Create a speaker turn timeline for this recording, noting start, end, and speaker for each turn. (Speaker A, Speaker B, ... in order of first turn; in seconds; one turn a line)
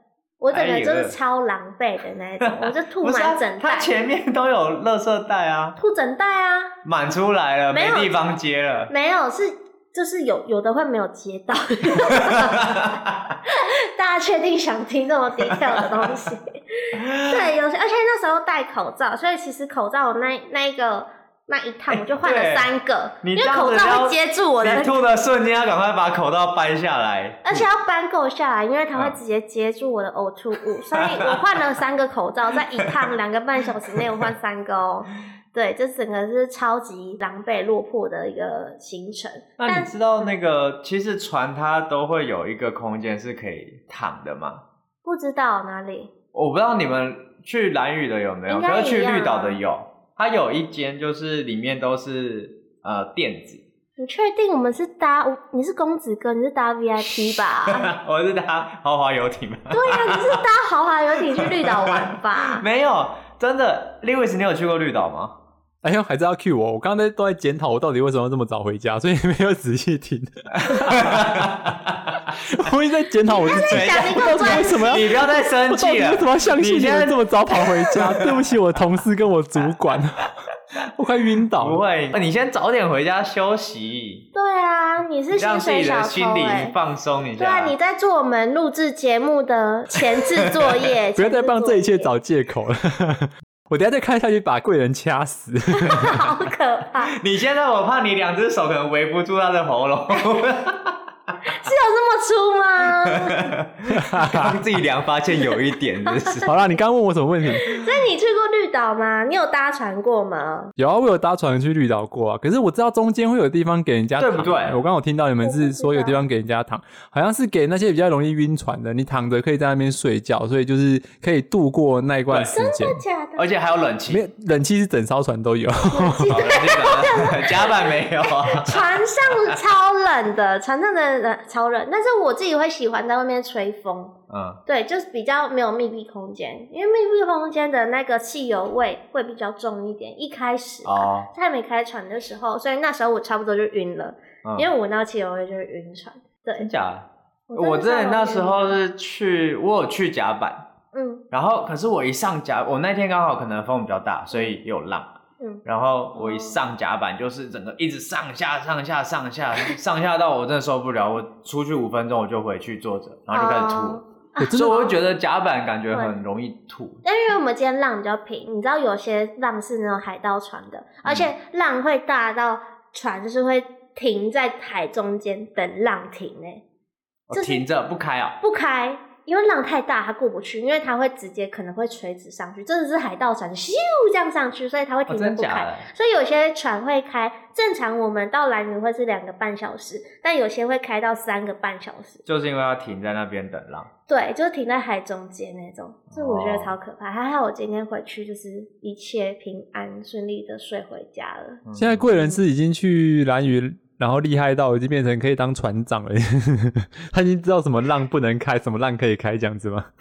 Speaker A: 0.4-3.9
Speaker B: 0.5-1.2
Speaker B: 2.4-5.8
Speaker A: 5.8-6.7
Speaker B: 6.8-8.9
Speaker A: 7.7-8.2
Speaker A: 8.9-12.7
Speaker B: 12.0-13.3
Speaker A: 13.5-24.9
Speaker B: 15.5-15.9
Speaker B: 16.9-17.5
Speaker B: 21.9-27.7
Speaker A: 27.4-39.9
Speaker B: 30.9-31.4
Speaker B: 34.0-34.2
Speaker B: 39.6-44.6
Speaker A: 45.0-46.1
Speaker B: 46.3-53.6
Speaker A: 48.5-49.6
Speaker A: 54.0-57.9
Speaker B: 57.7-60.4
Speaker A: 59.7-62.6
Speaker B: 61.3-65.4
Speaker C: 65.8-71.4
Speaker B: 70.5-72.3
Speaker C: 72.4-80.3
Speaker A: 73.3-75.0
Speaker B: 73.5-78.5
Speaker C: 81.0-81.8
Speaker B: 81.6-84.3
Speaker A: 84.3-86.8
Speaker B: 85.3-87.8
Speaker A: 87.4-92.1
Speaker B: 90.2-90.7
Speaker C: 91.2-96.3
Speaker A: 95.8-97.2
Speaker B: 97.1-101.0
Speaker A: 101.5-103.5
Speaker B: 103.0-106.5
Speaker C: 103.9-104.6
Speaker C: 106.5-107.7
Speaker A: 107.6-110.7
Speaker C: 110.8-123.0
Speaker B: 114.2-114.8
Speaker A: 115.4-116.2
Speaker B: 122.3-122.6
Speaker A: 122.5-123.5
Speaker B: 123.4-124.2
Speaker C: 124.1-126.5
Speaker A: 125.9-134.1
Speaker B: 126.3-129.6
Speaker B: 134.3-134.6
Speaker A: 134.7-146.7
Speaker B: 140.8-141.3
Speaker B: 144.4-144.7
Speaker B: 146.6-150.6
Speaker A: 147.5-148.8
Speaker A: 150.9-151.2
Speaker B: 151.3-155.1
Speaker B: 155.7-167.0
Speaker A: 156.2-156.6
Speaker A: 163.3-164.9
Speaker C: 164.4-164.9
Speaker A: 167.0-176.6
Speaker B: 171.1-171.3
Speaker B: 177.3-178.4
Speaker A: 177.3-177.6
Speaker A: 178.4-192.2
Speaker B: 185.1-185.9
Speaker B: 192.3-193.9
Speaker A: 194.1-201.6
Speaker B: 196.1-196.7
Speaker B: 201.7-202.1
Speaker C: 201.8-209.9
Speaker A: 202.1-202.4